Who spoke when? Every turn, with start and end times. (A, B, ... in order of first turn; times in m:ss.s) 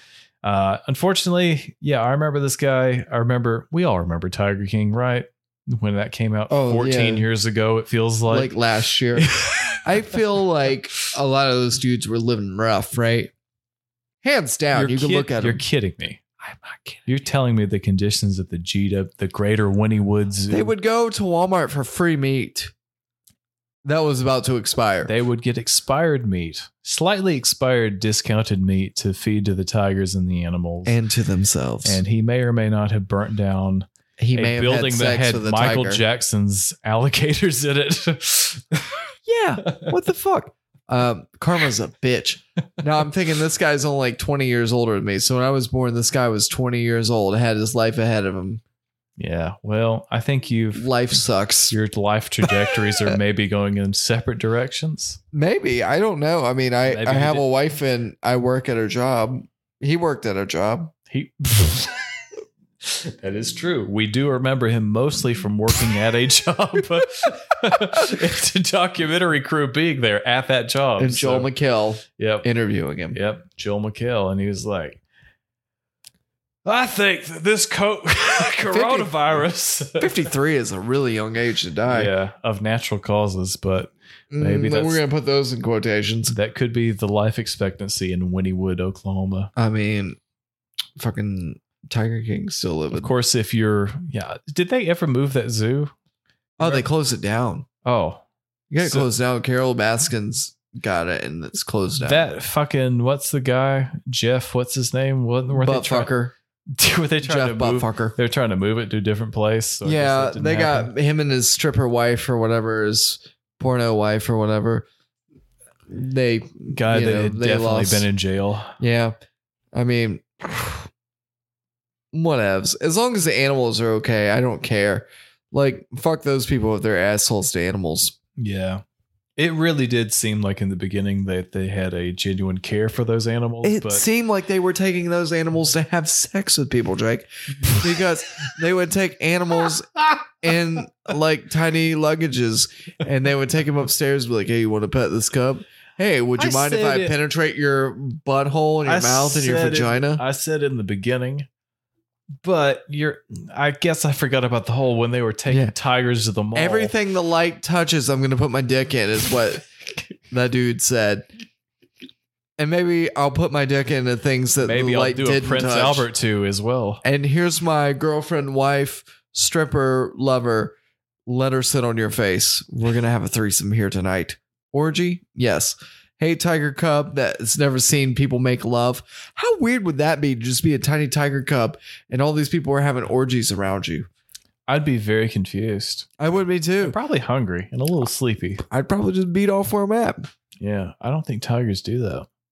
0:00.4-0:08.5 A
0:06.5-0:07.2 B
0:08.3-0:13.3 B
0:09.2-0:10.2 A
0:14.2-0:15.6 B
0:14.7-0:16.3 A
0:16.5-0:17.0 B
0:17.0-0:20.7 A
0:20.5-0:22.7 B
0:23.8-0:25.1 B
0:25.0-0:31.0 A
0:30.8-0:32.0 B
0:31.8-0:39.0 A
0:34.2-0:36.0 B
0:39.2-0:48.6 B
0:39.6-0:39.9 A
0:49.2-0:50.9 A
0:50.7-0:51.7 B
0:51.7-0:55.2 A
0:52.4-0:53.1 B
0:55.3-1:00.9 B
0:56.8-0:57.5 A
1:01.1-1:02.1 A
1:02.8-1:11.5 A
1:11.0-1:13.2 B
1:12.2-1:12.5 A
1:13.1-1:15.0 A
1:16.6-1:20.3 A
1:18.7-1:19.1 B
1:20.0-1:22.1 B
1:21.9-1:25.0 A
1:24.3-1:26.3 B
1:26.3-1:29.5 A
1:29.6-1:30.2 B
1:31.0-1:33.1 B
1:32.9-1:35.9 A
1:36.6-1:36.8 A
1:36.6-1:37.7 B
1:37.8-1:38.2 A
1:38.7-1:42.2 B
1:38.8-1:39.1 A
1:42.0-1:46.1 A
1:45.5-1:46.3 B
1:46.7-1:50.9 A
1:47.2-1:48.2 B
1:49.8-1:54.8 B
1:55.9-1:58.0 B
1:56.7-1:58.8 A
1:58.8-1:59.2 B
1:59.7-2:00.9 B
2:02.1-2:08.1 B
2:08.4-2:08.8 A
2:09.4-2:14.0 A
2:13.6-2:30.2 B
2:26.4-2:27.1 A
2:28.8-2:31.5 A
2:32.4-2:36.9 A
2:36.5-2:39.6 B
2:40.3-2:41.3 B
2:42.6-2:46.1 B
2:44.6-2:47.0 A
2:47.0-2:50.8 B
2:51.3-3:04.1 B
3:04.7-3:08.6 A
3:06.2-3:07.0 B
3:08.6-3:10.3 B
3:10.6-3:12.3 A